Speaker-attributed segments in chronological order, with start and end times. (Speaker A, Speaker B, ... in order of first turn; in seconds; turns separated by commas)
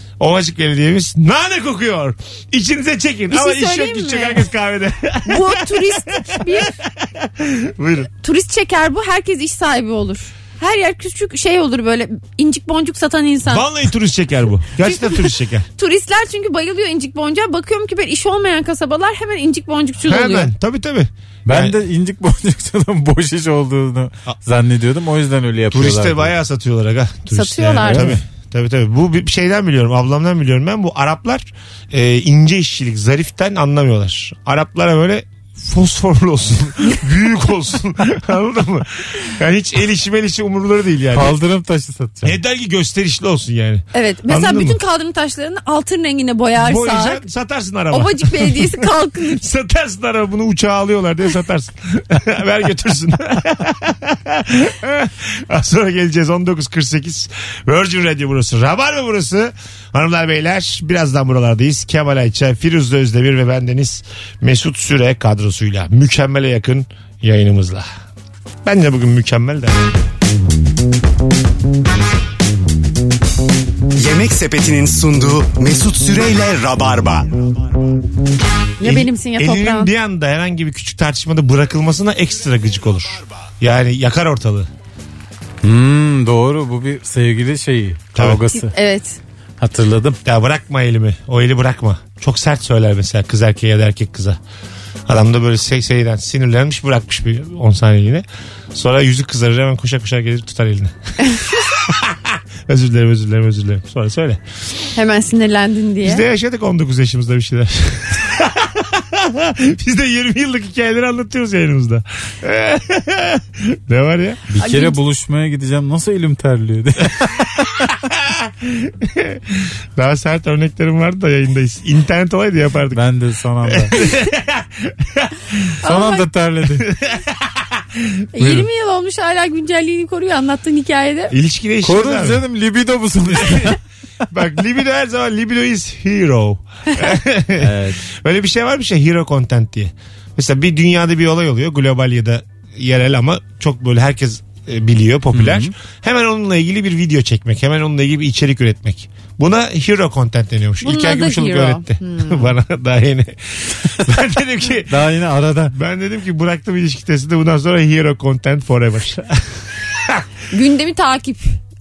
Speaker A: 0.2-8.1, Speaker B: 3.3-4.5, Speaker B: 5.3-6.7, Speaker B: 8.2-13.7, Speaker A: 13.5-15.7, Speaker B: 15.8-20.5, Speaker A: 20.0-21.8, Speaker C: 21.5-26.4, Speaker A: 25.7-41.4, Speaker B: 27.3-28.1, Speaker C: 27.9-28.2, Speaker C: 41.1-42.4, Speaker A: 42.2-44.8, Speaker B: 43.9-47.2, Speaker A: 46.6-48.7, Speaker B: 47.9-49.4, Speaker A: 49.3-67.9, Speaker A: 68.6-69.8, Speaker D: 73.9-77.8, Speaker B: 78.8-79.9, Speaker A: 78.8-84.7, Speaker C: 85.6-88.7, Speaker A: 88.2-88.4, Speaker B: 88.5-89.2, Speaker C: 89.6-90.2, Speaker A: 90.2-94.4, Speaker A: 95.1-104.4, Speaker B: 105.0-106.2, Speaker A: 106.0-114.4, Speaker C: 114.5-117.8, Speaker B: 114.6-115.0, Speaker A: 118.1-123.0, Speaker C: 122.9-124.0, Speaker A: 123.7-125.7, Speaker B: 125.8-126.3, Speaker C: 125.8-126.9, Speaker A: 126.8-127.4, Speaker A: 128.0-128.7, Speaker B: 128.3-131.3, Speaker A: 131.3-132.4, Speaker C: 131.8-133.8, Speaker A: 133.4-133.7, Speaker A: 134.3-154.9, Speaker C: 137.6-138.0, Speaker C: 145.3-145.7, Speaker B: 150.8-152.5, Speaker C: 154.9-155.7, Speaker A: 155.7-159.4, Speaker B: 160.5-161.6